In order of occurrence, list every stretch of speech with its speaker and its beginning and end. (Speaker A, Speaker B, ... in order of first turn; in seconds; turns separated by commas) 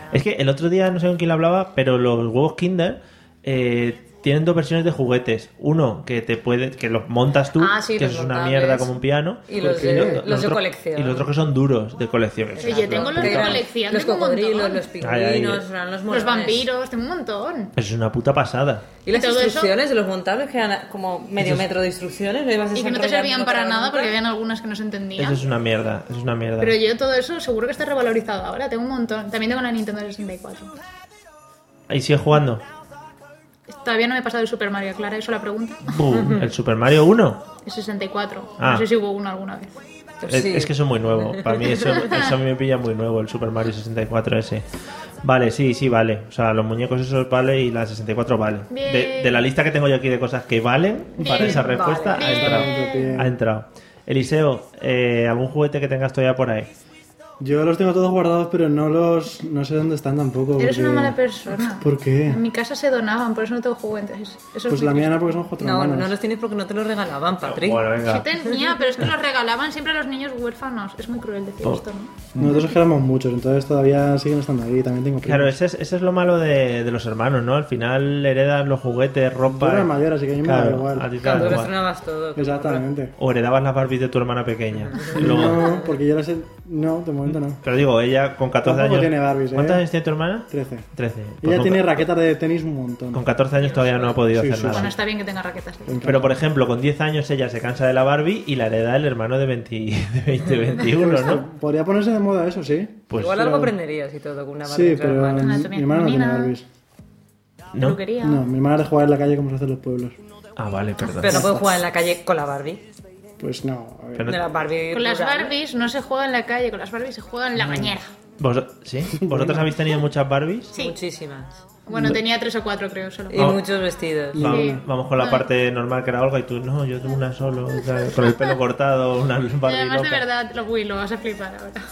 Speaker A: 0.1-13.6, Speaker B: 7.6-11.3, Speaker C: 9.6-10.3, Speaker B: 12.6-16.7, Speaker D: 12.6-14.8, Speaker A: 15.0-15.6, Speaker D: 16.1-17.7, Speaker A: 17.8-18.9, Speaker B: 19.0-24.2, Speaker D: 19.1-19.7, Speaker D: 22.7-25.4, Speaker A: 25.2-26.8, Speaker D: 26.6-30.7, Speaker A: 31.9-32.6, Speaker D: 33.7-35.9, Speaker A: 35.9-37.4, Speaker B: 36.2-36.5, Speaker D: 37.6-39.8, Speaker A: 38.6-38.9, Speaker B: 40.2-42.1, Speaker A: 40.3-44.6, Speaker A: 45.2-56.7, Speaker D: 48.7-49.4, Speaker D: 51.2-53.1, Speaker B: 51.4-52.4, Speaker C: 52.2-53.4, Speaker C: 57.4-61.2, Speaker D: 60.6-65.4, Speaker C: 61.7-62.4, Speaker C: 64.7-66.1, Speaker B: 65.6-67.9, Speaker A: 67.5-68.3, Speaker D: 68.0-72.1, Speaker C: 72.3-75.6, Speaker A: 75.2-81.7, Speaker C: 79.4-81.7, Speaker B: 81.2-82.8, Speaker C: 82.3-83.1, Speaker A: 83.2-85.8, Speaker B: 84.7-85.9, Speaker C: 85.1-87.6, Speaker A: 87.3-92.0, Speaker C: 88.6-89.8, Speaker C: 90.5-90.9, Speaker C: 91.4-93.2, Speaker A: 93.1-94.9, Speaker B: 93.7-94.1, Speaker C: 94.3-94.9, Speaker D: 94.7-96.2, Speaker C: 95.9-96.3, Speaker A: 96.0-101.4, Speaker C: 100.8-103.7, Speaker A: 103.1-103.6, Speaker B: 103.2-105.7, Speaker C: 104.6-106.6, Speaker D: 105.4-106.5, Speaker A: 107.7-108.0, Speaker D: 107.8-108.4, Speaker C: 108.2-110.2, Speaker A: 110.6-111.5, Speaker B: 111.0-112.8, Speaker C: 111.2-111.7, Speaker C: 113.4-114.3, Speaker A: 114.2-114.4, Speaker B: 114.2-115.5, Speaker D: 114.9-118.1, Speaker A: 118.4-120.7, Speaker C: 119.2-119.8, Speaker D: 120.7-121.0, Speaker B: 120.7-121.6, Speaker D: 121.9-123.5, Speaker C: 121.9-122.2, Speaker B: 123.3-124.4, Speaker A: 123.3-123.6, Speaker C: 124.3-124.8, Speaker A: 124.3-130.2, Speaker D: 124.5-125.5, Speaker D: 129.7-131.8